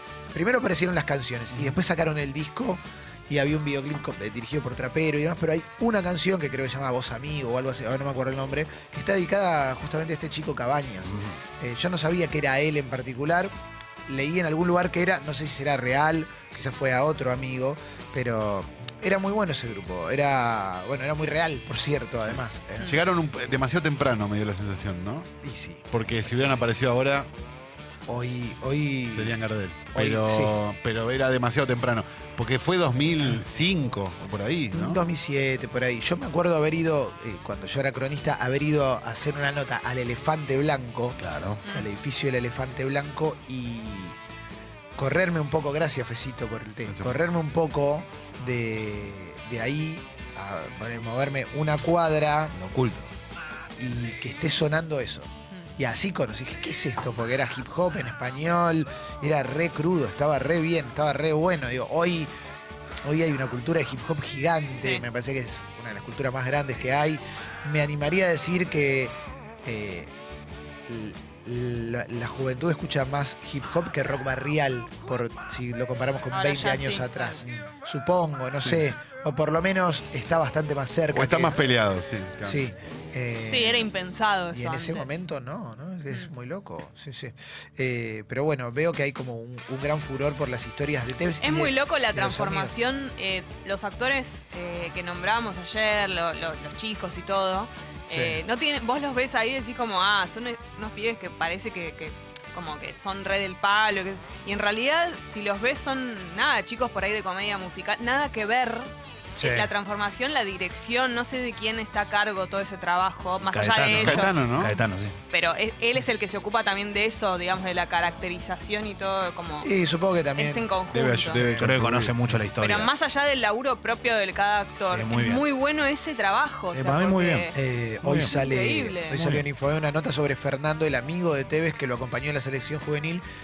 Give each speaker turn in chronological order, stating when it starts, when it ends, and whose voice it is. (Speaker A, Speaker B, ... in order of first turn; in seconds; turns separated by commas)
Speaker A: 0.3-13.5, Speaker B: 11.0-11.4, Speaker A: 14.1-23.0, Speaker C: 22.8-25.3, Speaker A: 25.4-26.6, Speaker C: 25.9-27.3, Speaker A: 28.1-29.4, Speaker C: 29.1-35.0, Speaker A: 29.9-30.6, Speaker A: 34.7-44.2, Speaker B: 41.2-41.6, Speaker A: 45.0-52.5, Speaker C: 46.8-47.2, Speaker B: 52.5-53.1, Speaker A: 53.8-62.3, Speaker A: 63.0-69.1, Speaker D: 64.8-65.0, Speaker A: 69.6-70.1, Speaker A: 70.9-81.6, Speaker D: 76.3-77.4, Speaker C: 81.1-82.6, Speaker A: 82.4-83.9, Speaker D: 83.4-85.2, Speaker A: 84.5-92.7, Speaker D: 91.4-114.4, Speaker A: 98.1-98.4, Speaker A: 109.4-109.7, Speaker B: 113.4-115.2, Speaker C: 113.9-114.8, Speaker D: 115.3-119.7, Speaker A: 119.6-120.7, Speaker D: 120.3-121.4, Speaker C: 120.9-122.4, Speaker B: 121.3-122.9, Speaker D: 122.6-127.5, Speaker B: 124.9-125.4, Speaker B: 126.7-127.5, Speaker A: 127.5-133.2, Speaker B: 128.0-128.3, Speaker D: 128.2-129.2, Speaker B: 129.1-129.4